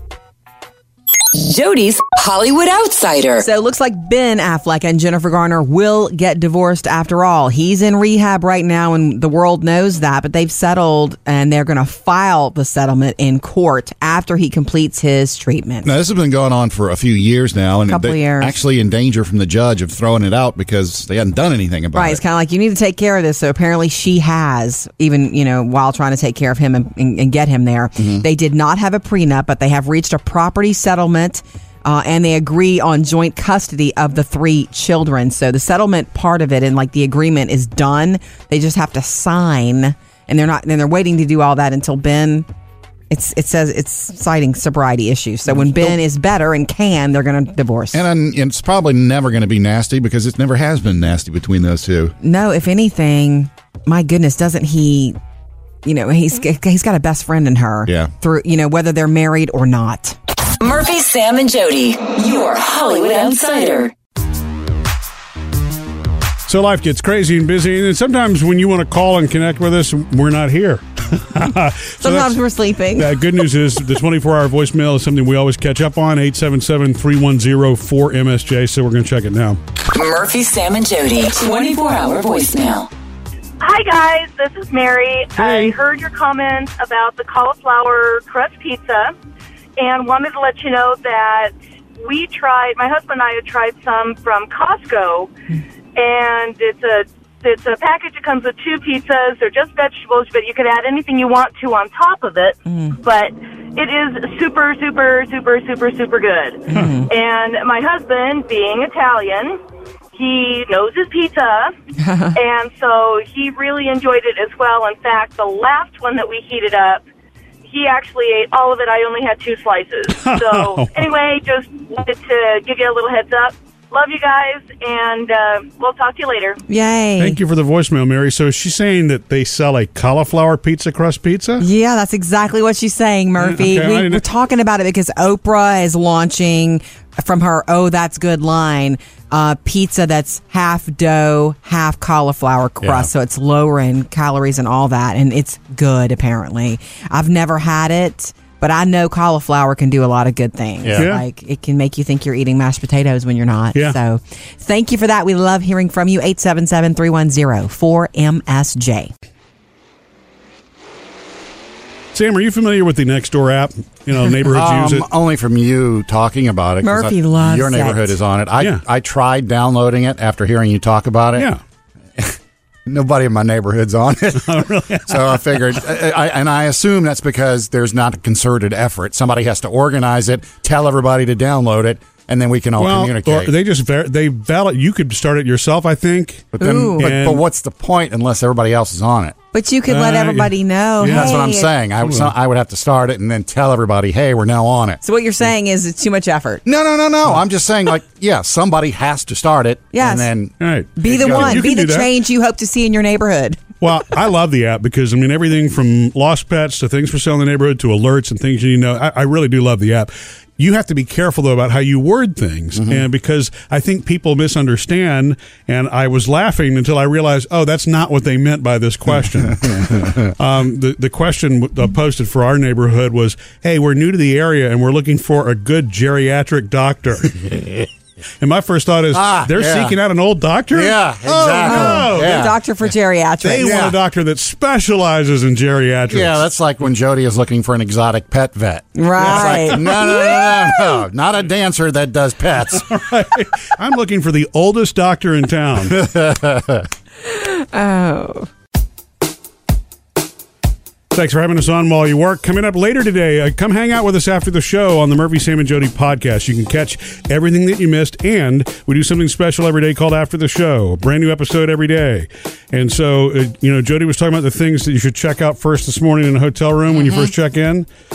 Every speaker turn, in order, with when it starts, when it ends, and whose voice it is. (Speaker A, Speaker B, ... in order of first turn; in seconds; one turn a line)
Speaker A: 1.3-3.4
Speaker B: 3.4-15.9
Speaker C: 15.8-22.2
Speaker B: 17.9-18.6
Speaker B: 21.9-42.5
Speaker C: 28.0-28.2
Speaker B: 43.1-48.0
Speaker C: 45.5-45.9
Speaker C: 47.9-52.1
Speaker B: 52.2-55.2
Speaker B: 55.8-60.2
Speaker A: 60.6-63.9
Speaker D: 66.5-72.4
Speaker B: 72.0-73.1
Speaker D: 72.9-79.6
Speaker A: 79.8-82.9
Speaker E: 83.6-89.1
Speaker D: 85.4-85.8
Speaker E: 89.8-91.5
Speaker E: 92.0-95.3
Speaker E: 96.0-109.6
Speaker B: 102.7-103.0
Speaker B: 106.7-107.1
Speaker E: 110.1-111.7
Speaker B: 112.0-112.4
Speaker E: 112.3-117.0
Speaker E: 117.7-126.6
Speaker D: 120.2-120.9
Speaker B: 126.7-127.4
Speaker D: 127.2-131.6
Speaker B: 131.6-159.1
Speaker D: 133.4-134.2
Speaker C: 142.8-143.1
Speaker C: 150.8-151.1
Speaker D: 150.9-151.2
Speaker D: 162.1-165.1
Speaker C: 164.5-171.5
Speaker B: 166.8-168.1
Speaker C: 172.2-183.5
Speaker D: 174.3-175.4
Speaker D: 182.8-187.4
Speaker C: 186.5-189.3
Speaker B: 186.6-187.1
Speaker B: 189.5-191.7
Speaker D: 189.9-191.4
Speaker C: 191.1-195.0
Speaker D: 192.0-192.3
Speaker B: 195.0-196.6
Speaker C: 196.6-200.5
Speaker B: 199.9-200.3
Speaker D: 200.6-202.1
Speaker B: 201.0-203.6
Speaker C: 201.1-201.7
Speaker D: 203.8-227.4
Speaker C: 212.8-213.0
Speaker C: 219.6-220.3
Speaker C: 227.4-227.9
Speaker D: 228.4-232.4
Speaker C: 229.1-229.9
Speaker C: 230.7-232.6
Speaker B: 231.6-233.7
Speaker D: 233.4-236.4
Speaker C: 233.6-234.0
Speaker C: 236.1-242.9
Speaker B: 238.9-240.3
Speaker D: 239.2-240.1
Speaker D: 242.8-246.0
Speaker C: 245.8-246.9
Speaker B: 247.2-248.5
Speaker D: 251.1-267.9
Speaker C: 266.9-267.3